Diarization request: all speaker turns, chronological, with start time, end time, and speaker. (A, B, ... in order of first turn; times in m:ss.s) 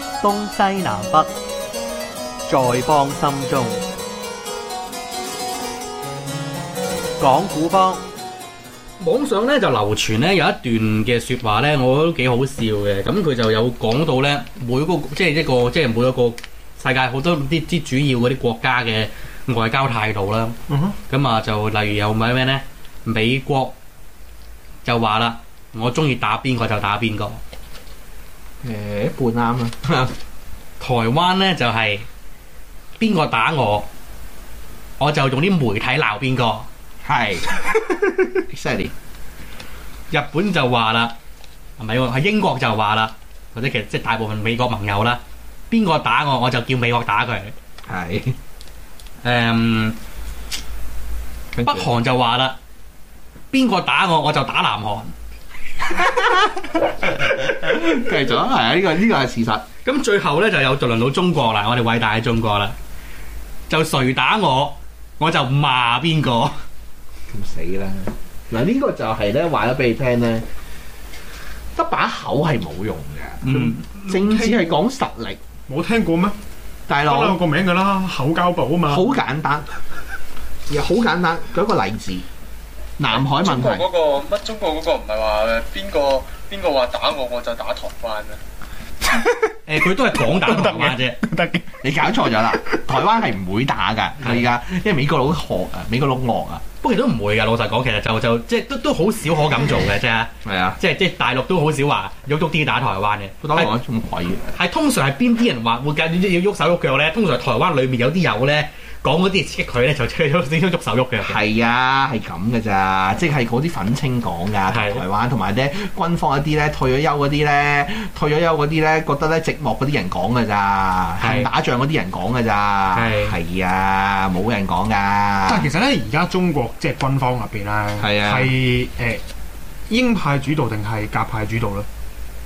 0:00.2-0:01.3 A
0:02.5-0:03.8 A
0:07.2-0:08.0 A
0:09.0-0:20.6 B
0:20.7-0:21.0 C
0:21.1-0:23.7 B
0:24.8-0:27.4 B
0:28.6-0:30.1 D
0:30.8-0:32.0 B
0:33.0-0:33.8 B
0:35.0-0:36.7 B
0:37.0-0:38.9 D
0:40.1-0:41.1 B
0:41.8-0:47.5 B
0:47.8-0:48.4 D
0:49.2-0:50.0 B
0:51.5-0:51.9 D
0:51.6-0:52.6 B
0:53.5-0:55.1 B
0:55.8-0:59.6 D
0:59.8-1:02.8 B
1:03.7-1:06.6 B
1:07.3-1:10.5 D
1:11.7-1:15.4 D
1:13.4-1:13.8 B
1:13.4-1:14.8 C
1:15.7-1:16.4 C
1:16.9-1:17.4 D
1:17.0-1:19.1 C
1:18.9-1:19.7 D
1:20.7-1:22.2 D
1:23.0-1:23.9 D
1:23.1-1:28.4 E
1:29.6-1:31.2 B
1:30.4-1:31.8 C
1:31.8-1:36.6 D
1:36.8-1:43.7 B
1:40.4-1:40.8 D
1:43.4-1:44.5 D
1:44.5-1:51.4 B
1:51.2-2:05.7 D
1:54.7-1:55.0 B
2:01.2-2:01.5 B
2:02.9-2:03.4 B
2:05.5-2:09.2 C
2:08.0-2:08.5 D
2:09.9-2:11.8 C